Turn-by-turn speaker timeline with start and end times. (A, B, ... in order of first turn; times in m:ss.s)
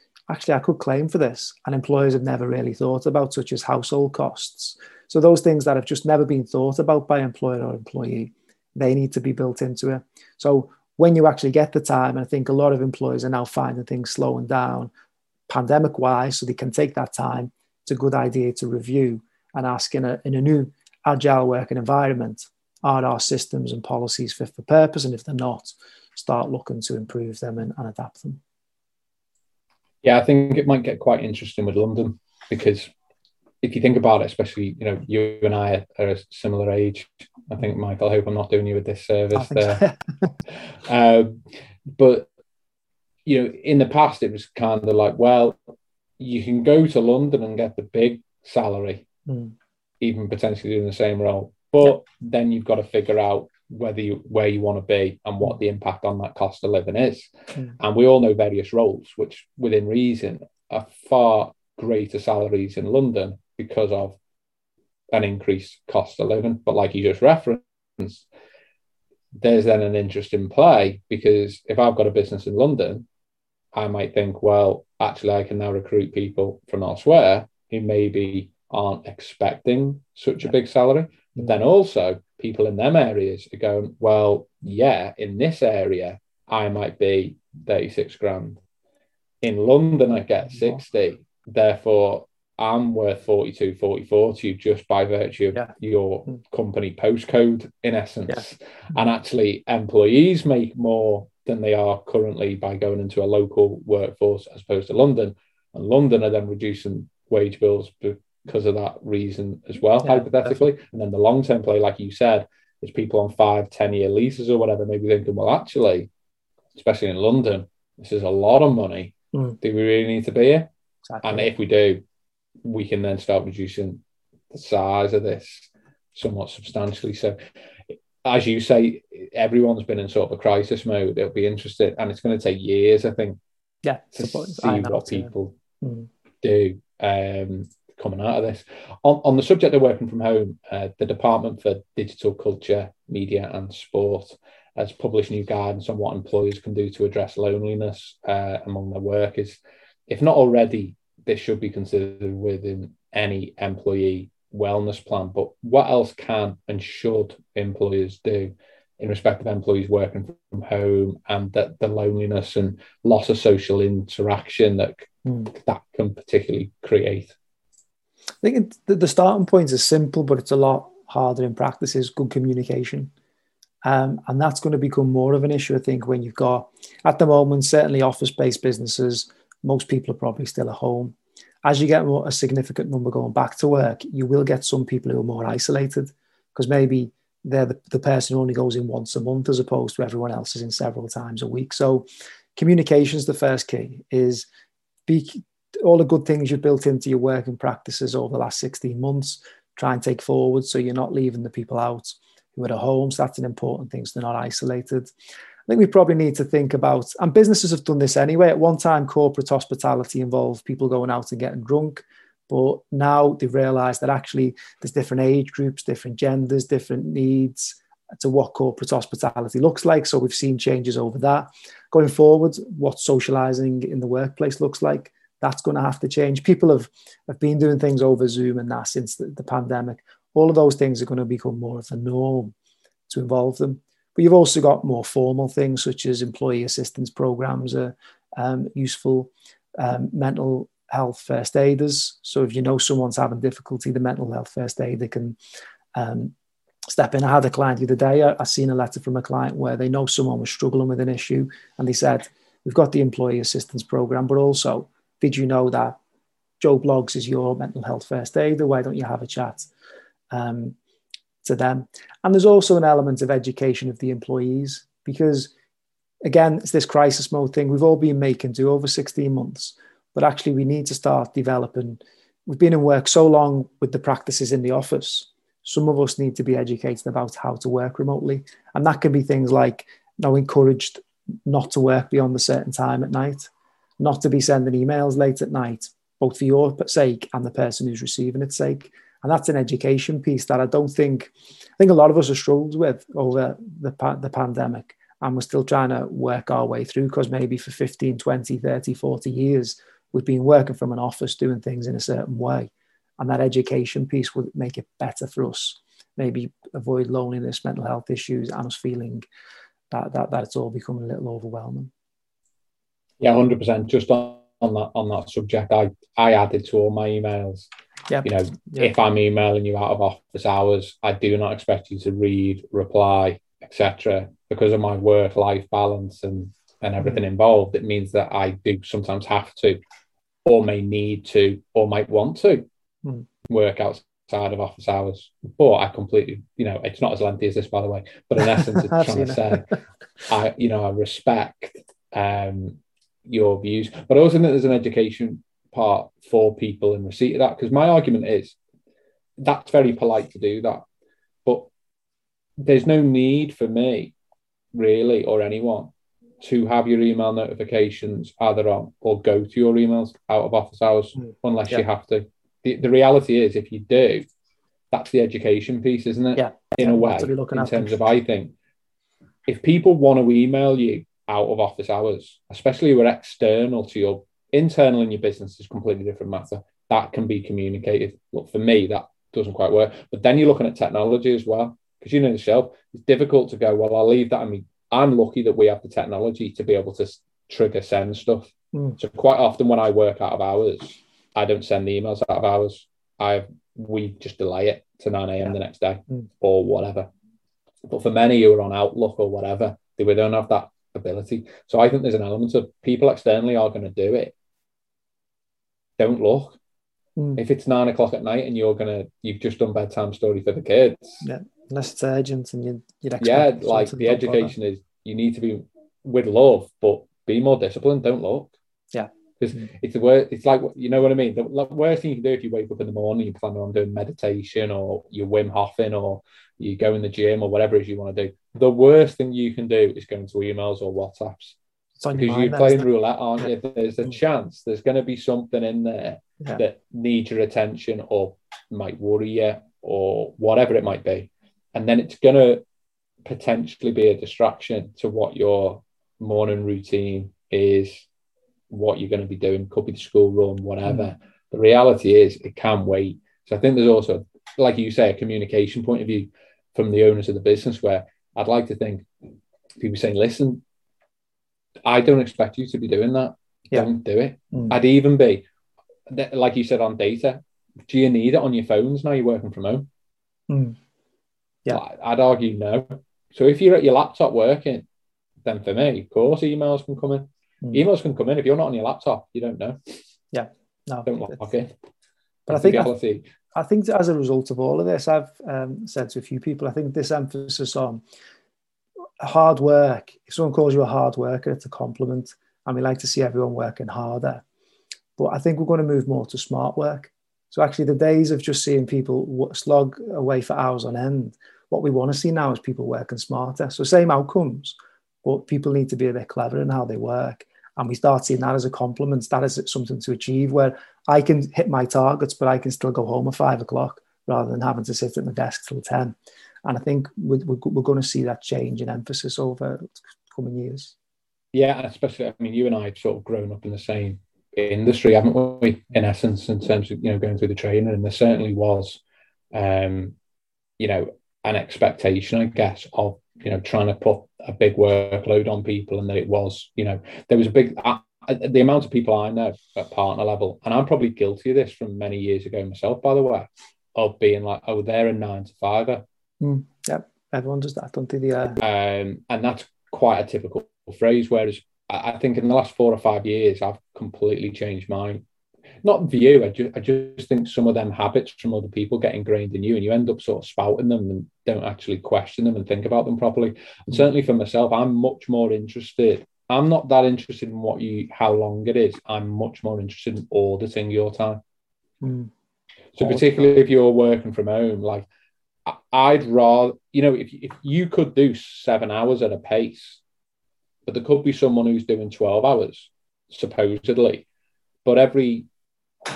0:00.3-0:14.9 A
0:15.5-0:28.4 A
0:30.0-0:32.9 B
0:33.6-0:39.8 B
0:39.3-0:40.3 A
0:40.7-0:42.3 B
0:43.2-0:45.6 B
0:46.2-0:49.0 B
0:49.3-0:49.5 A
0:50.0-1:04.2 B
1:05.1-1:08.2 B
1:09.4-1:13.0 B
1:13.7-1:28.6 B
1:29.4-1:56.1 B
1:50.0-1:50.5 A
1:56.7-2:00.7 B
2:01.1-2:01.5 A
2:01.2-2:02.0 B
2:02.6-2:04.0 B
2:04.5-2:07.4 B
2:08.2-2:13.4 B
2:13.8-2:15.3 A
2:14.1-2:15.6 B
2:15.8-2:16.1 A
2:16.4-2:47.3 B
2:48.4-2:53.1 A
2:53.8-3:14.5 A
3:15.1-3:25.1 A
3:25.7-3:52.5 A
3:53.1-4:05.4 A
4:05.9-4:06.3 A
4:06.9-4:16.0 A
4:16.6-4:19.7 A
4:20.3-4:20.8 A
4:21.4-4:25.5 A
4:26.2-5:09.2 A
5:09.9-5:11.9 A
5:13.2-5:17.7 B
5:18.1-5:18.9 A
5:18.2-5:29.8 B
5:30.4-5:32.6 B
5:33.5-5:39.7 B
5:38.6-5:39.6 A
5:40.3-5:48.6 B
5:49.4-5:50.8 B
5:52.6-5:54.1 B
5:54.7-5:55.9 B
5:56.4-6:04.2 B
6:04.9-6:08.5 B
6:06.4-6:07.9 A
6:09.5-6:37.1 B
6:37.9-6:44.3 B
6:46.0-6:46.6 B
6:47.4-6:51.2 B
6:51.2-6:54.5 A
6:53.2-6:58.5 B
6:58.9-6:59.6 A
6:59.4-7:11.6 B
7:12.0-7:12.8 A
7:12.1-7:22.6 B
7:23.2-7:28.0 B
7:28.7-7:39.1 B
7:39.8-7:40.6 B
7:41.8-7:45.4 B
7:46.1-7:49.9 B
7:50.5-7:50.8 A
7:51.7-7:54.8 B
7:55.4-7:59.8 B
8:00.3-8:01.6 A
8:01.0-8:01.7 B
8:02.5-8:02.9 A
8:02.5-8:03.3 B
8:03.5-8:08.0 A
8:09.2-8:14.4 A
8:15.2-8:40.9 A
8:41.5-8:49.0 B
8:49.5-8:50.1 B
8:50.8-9:06.0 B
9:06.4-9:08.6 A
9:08.6-9:15.2 B
9:15.8-9:31.4 B
9:32.0-9:32.3 A
9:32.9-9:35.0 B
9:35.6-9:40.0 B
9:40.8-9:44.2 B
9:44.8-9:45.5 B